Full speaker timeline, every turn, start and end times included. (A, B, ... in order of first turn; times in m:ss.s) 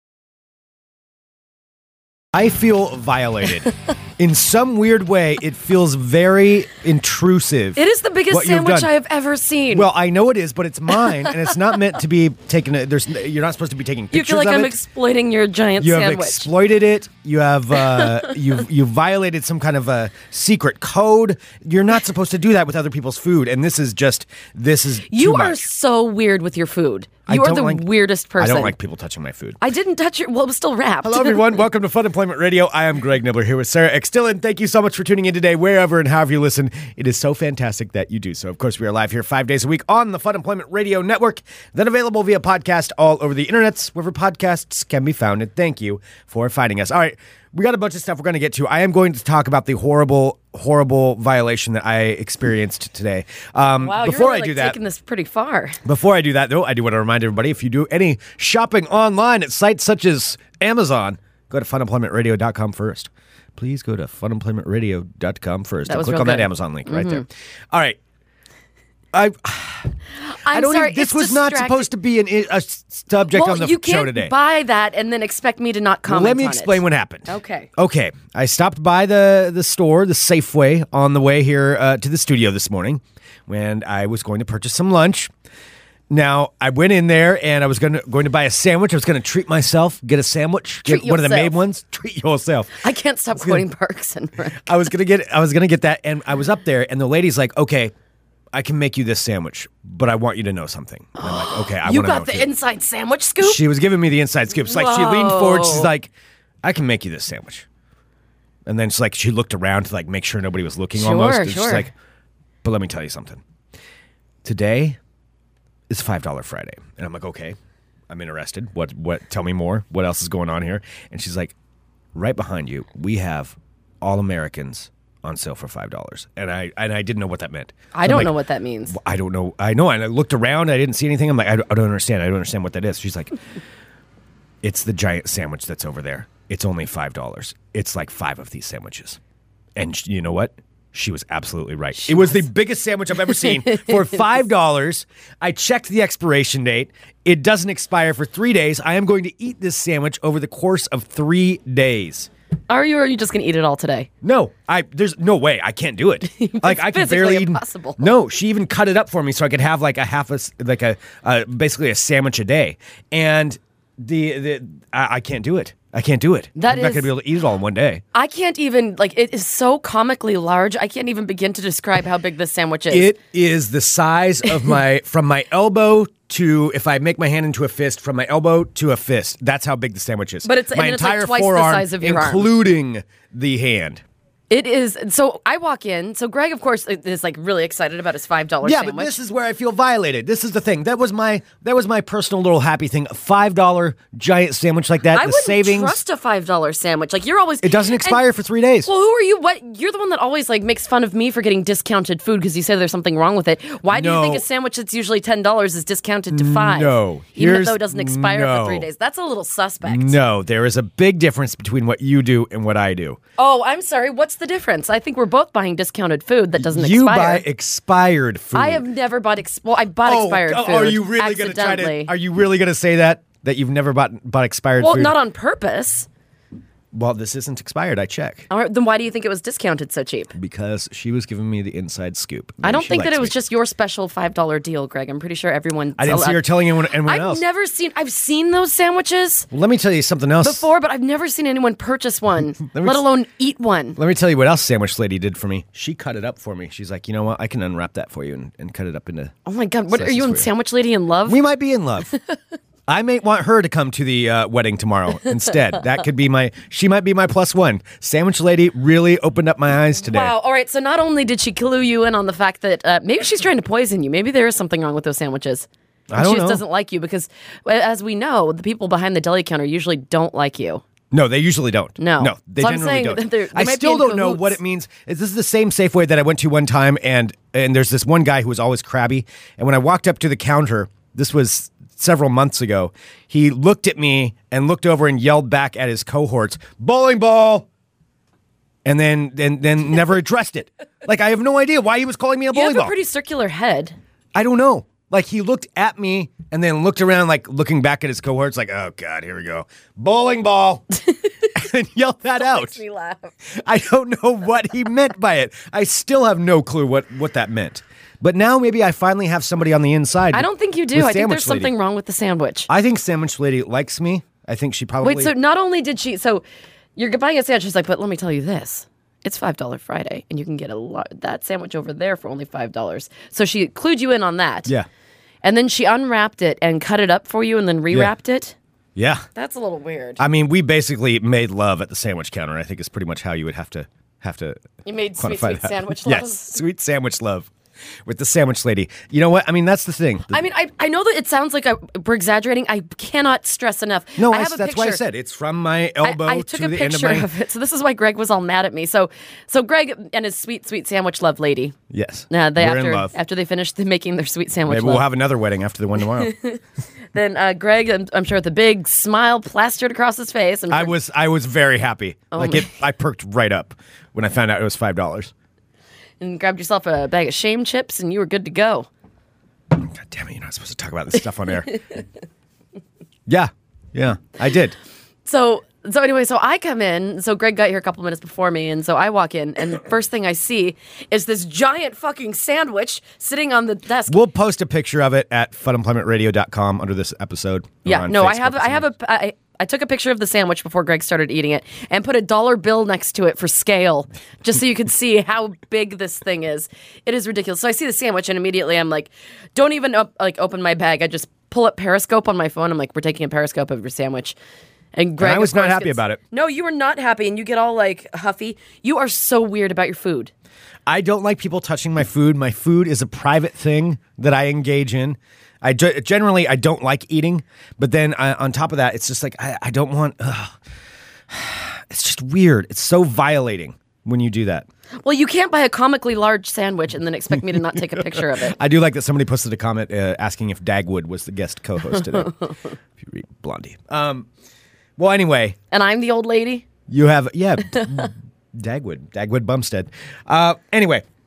0:02.3-0:08.9 A
0:07.8-0:09.9 B
0:09.7-0:14.8 A
0:14.1-0:16.5 B
0:15.8-0:25.6 A
0:25.1-0:28.7 B
0:27.3-0:29.6 A
0:29.6-0:31.5 B
0:31.0-0:54.8 A
0:53.8-0:55.8 B
0:55.8-1:08.0 A
1:05.8-1:07.2 B
1:09.1-1:09.9 A
1:10.2-1:11.9 B
1:10.5-1:14.3 A
1:13.3-1:17.7 B
1:16.1-1:25.3 A
1:26.1-1:32.8 A
1:30.8-1:31.6 B
1:32.8-1:34.9 B
1:33.4-1:33.6 A
1:34.6-1:37.9 A
1:38.5-1:42.5 A
1:41.2-1:43.6 B
1:43.4-1:46.1 A
1:44.7-1:45.9 B
1:46.6-1:47.6 A
1:48.6-1:51.9 A
1:50.9-1:51.9 B
1:52.6-1:53.4 A
1:54.4-1:55.0 A
1:55.9-1:57.6 A
1:58.1-2:01.5 A
2:02.1-2:08.3 A
2:07.9-2:09.0 B
2:08.9-2:13.3 A
2:14.6-2:19.2 A
2:19.8-2:32.3 A
2:23.6-2:23.9 B
2:32.7-2:34.1 B
2:34.2-2:48.0 A
2:36.3-2:38.1 B
2:46.6-2:47.1 B
2:48.1-2:53.1 B
2:52.9-3:04.0 A
3:00.4-3:02.5 B
3:04.5-3:09.2 B
3:08.6-3:16.0 A
3:15.1-3:18.2 B
3:17.6-3:18.9 A
3:18.8-3:30.2 B
3:23.9-3:24.4 A
3:26.3-3:28.9 A
3:29.8-3:33.2 A
3:33.4-3:37.4 B
3:36.6-3:38.8 A
3:38.5-3:42.1 B
3:40.0-3:45.2 A
3:44.8-3:46.1 B
3:46.9-3:48.5 A
3:48.5-3:50.3 B
3:50.3-3:53.3 A
3:52.6-3:56.5 B
3:56.0-3:57.4 A
3:57.0-3:59.5 B
3:59.5-4:00.7 A
4:00.4-4:04.0 B
4:02.6-4:03.1 A
4:04.0-4:09.3 A
4:09.4-4:11.4 B
4:09.9-4:10.5 A
4:11.2-4:12.1 A
4:12.1-4:12.4 B
4:12.9-4:20.3 A
4:20.0-4:30.8 B
4:26.1-4:26.6 A
4:31.1-4:47.7 A
4:32.0-4:34.6 B
4:48.8-4:52.9 A
4:52.5-4:54.0 B
4:54.3-5:00.8 A
5:01.0-5:01.5 B
5:01.5-5:02.8 A
5:02.4-5:03.3 B
5:03.5-5:11.7 A
5:10.3-5:12.7 B
5:12.7-5:15.3 A
5:15.0-5:16.4 B
5:17.0-5:24.7 B
5:25.4-5:28.6 B
5:29.0-5:29.2 A
5:29.3-5:30.2 B
5:30.2-5:34.6 A
5:34.8-5:36.6 B
5:35.2-5:37.5 A
5:38.0-5:40.4 A
5:40.3-5:45.0 B
5:44.2-5:47.3 A
5:46.0-5:51.8 B
5:51.9-5:53.1 A
5:52.3-5:55.1 B
5:54.7-5:56.3 A
5:56.1-5:56.6 B
5:57.1-6:00.9 B
6:00.7-6:05.3 A
6:02.3-6:02.7 B
6:06.2-6:08.9 B
6:09.7-6:11.8 A
6:13.3-6:14.8 A
6:15.2-6:24.2 B
6:24.1-6:28.8 A
6:27.8-6:44.4 B
6:44.9-6:50.3 B
6:45.2-6:46.2 A
6:50.9-7:00.6 A
7:01.3-7:04.7 A
7:05.0-7:08.6 B
7:07.4-7:12.3 A
7:11.9-7:12.6 B
7:13.0-7:14.3 A
7:15.0-7:15.6 A
7:15.7-7:16.7 B
7:16.9-7:21.0 A